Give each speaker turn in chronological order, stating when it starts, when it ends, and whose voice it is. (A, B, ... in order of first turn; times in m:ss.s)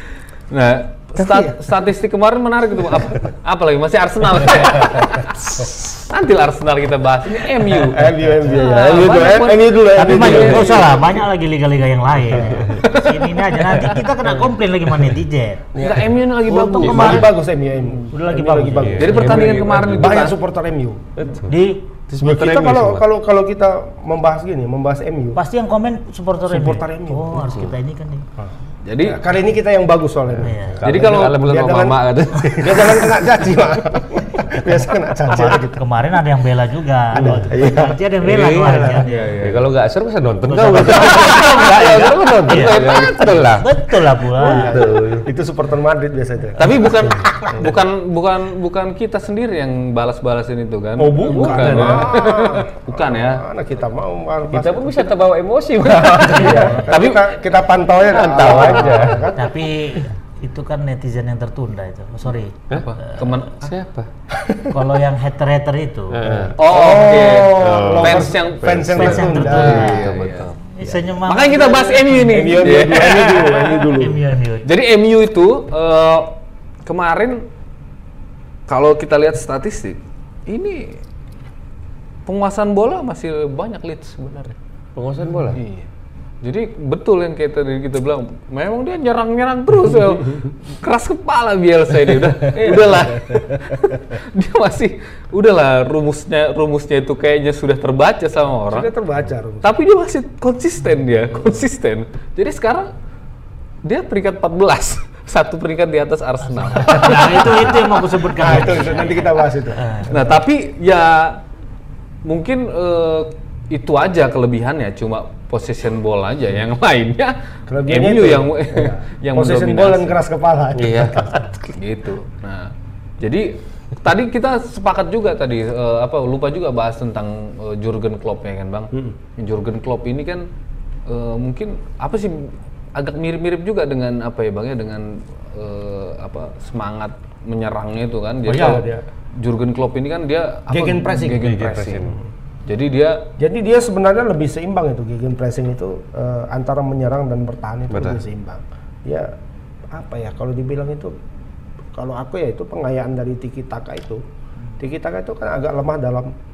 0:00.5-0:10.8 A
0:01.2-0:01.6 B
0:07.8-0:11.2 B
0:10.0-0:15.6 C
0:10.2-0:10.6 D
0:12.3-0:12.8 B
0:12.3-0:12.8 D
0:15.8-0:21.0 B
0:15.8-0:17.4 A
0:16.5-0:17.4 C
0:18.1-0:19.2 C
0:18.8-0:20.3 D
0:19.0-0:20.4 A
0:21.2-0:21.6 D
0:21.5-0:21.8 C
0:22.1-0:23.1 D
0:22.2-0:25.4 B
0:25.4-0:28.2 C
0:26.5-0:27.6 B
0:27.4-0:27.7 D
0:28.4-0:35.8 B
0:28.8-0:29.2 A
0:30.3-0:33.3 D
0:30.4-0:30.8 C
0:30.8-0:31.5 A
0:35.3-0:39.4 C
0:37.1-0:37.5 D
0:37.2-0:38.0 B
0:38.2-0:45.3 D
0:38.6-0:39.5 B
0:40.5-0:44.9 C
0:41.4-0:41.8 A
0:42.5-0:43.4 A
0:44.4-0:47.8 B
0:46.6-0:53.4 A
0:51.0-0:55.1 B
0:51.3-0:52.2 D
0:54.5-0:57.0 D
0:55.8-0:57.3 A
0:56.1-0:59.6 B
0:56.4-0:56.8 C
0:58.0-0:59.3 D
0:59.3-1:02.5 C
1:02.7-1:03.7 A
1:03.6-1:04.1 D
1:04.3-1:04.7 B
1:04.7-1:06.2 C
1:06.1-1:06.6 D
1:06.2-1:10.1 B
1:06.6-1:10.5 A
1:07.4-1:10.6 D
1:08.9-1:10.1 C
1:10.7-1:12.7 C
1:11.2-1:13.8 A
1:12.3-1:14.2 B
1:12.7-1:13.2 D
1:13.9-1:14.7 C
1:14.6-1:16.3 A
1:16.8-1:17.4 A
1:18.7-1:21.0 A
1:22.2-1:24.5 A
1:25.0-1:25.6 D
1:25.5-1:25.9 A
1:26.4-1:38.9 A
1:32.6-1:33.4 B
1:38.7-1:39.7 B
1:39.6-1:42.9 A
1:43.8-1:47.9 A
1:46.6-1:50.3 C
1:47.0-1:47.4 B
1:48.2-1:50.3 B
1:50.1-1:51.4 A
1:52.2-2:00.2 A
1:57.7-2:01.6 B
2:00.7-2:01.5 D
2:01.7-2:10.5 A
2:11.1-2:22.1 A
2:18.4-2:19.0 B
2:20.7-2:21.5 B
2:21.3-2:22.2 D
2:22.6-2:23.2 A
2:23.4-2:29.3 B
2:27.9-2:28.2 D
2:29.9-2:31.1 B
2:31.9-2:34.2 B
2:34.8-2:36.3 B